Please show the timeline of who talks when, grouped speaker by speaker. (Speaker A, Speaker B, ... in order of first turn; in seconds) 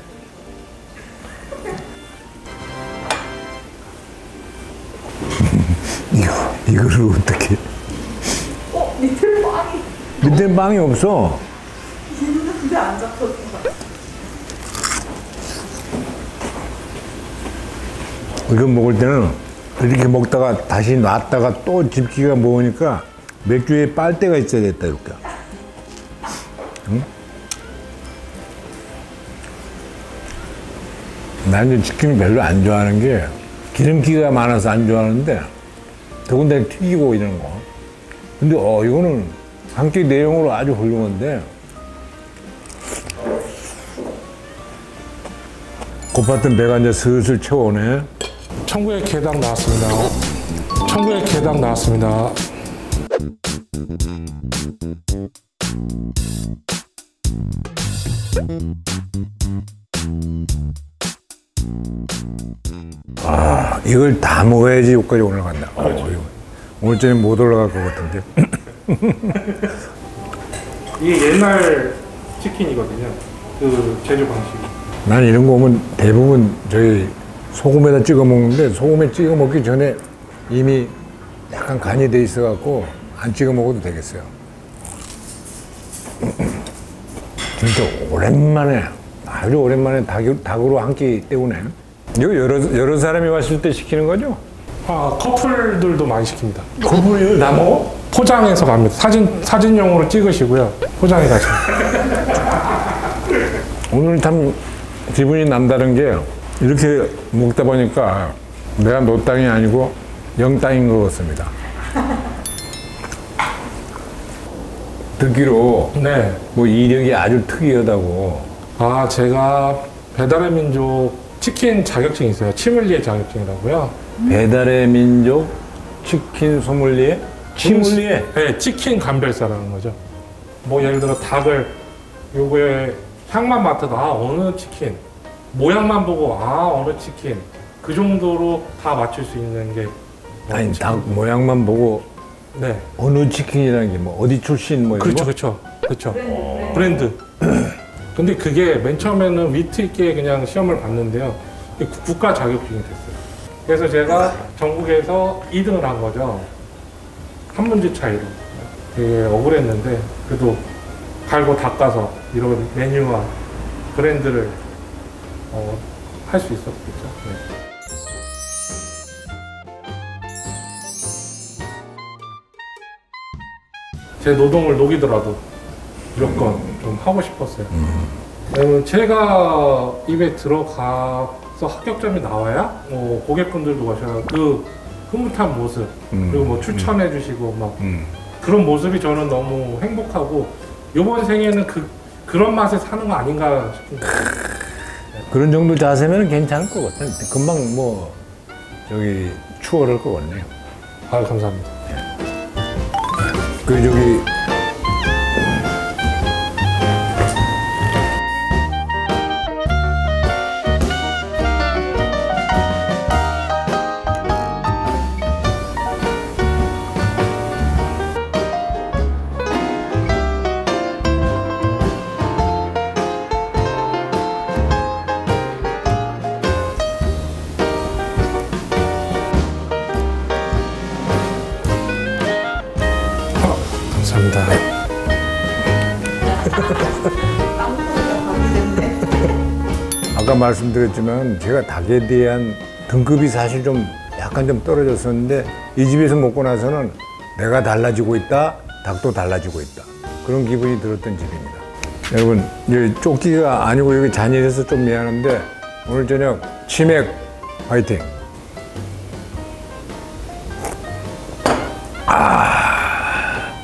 Speaker A: 5.3-7.6, 10.2-11.4, 18.4-25.2, 31.4-35.5, 36.2-37.6, 38.4-41.5, 46.1-48.1, 63.2-69.8, 75.0-80.9, 81.5-84.3, 86.2-86.5, 87.5-94.4, 96.8-97.8, 103.9-111.5, 115.2-118.5, 124.2-128.3, 140.5-142.1, 143.0-145.3, 146.2-147.1, 177.8-178.1, 186.1-186.9, 187.8-188.1, 195.3-198.2, 198.9-200.5, 203.6-204.3, 240.1-258.1, 262.0-263.5
Speaker B: 8.7-9.9, 12.1-13.7, 237.6-238.8
Speaker C: 48.6-50.2, 50.8-52.4, 71.0-74.7, 94.8-96.7, 97.9-102.2, 115.9-116.4, 118.8-124.0, 127.6-130.0, 130.6-131.8, 132.3-141.1, 142.5-142.9, 144.9-147.2, 148.1-156.5, 157.5-160.7, 161.2-163.3, 163.9-164.6, 165.5-167.4, 174.2-175.4, 176.1-177.8, 178.5-187.8, 188.4-194.3, 201.1-201.7, 233.4-234.6, 236.5-237.0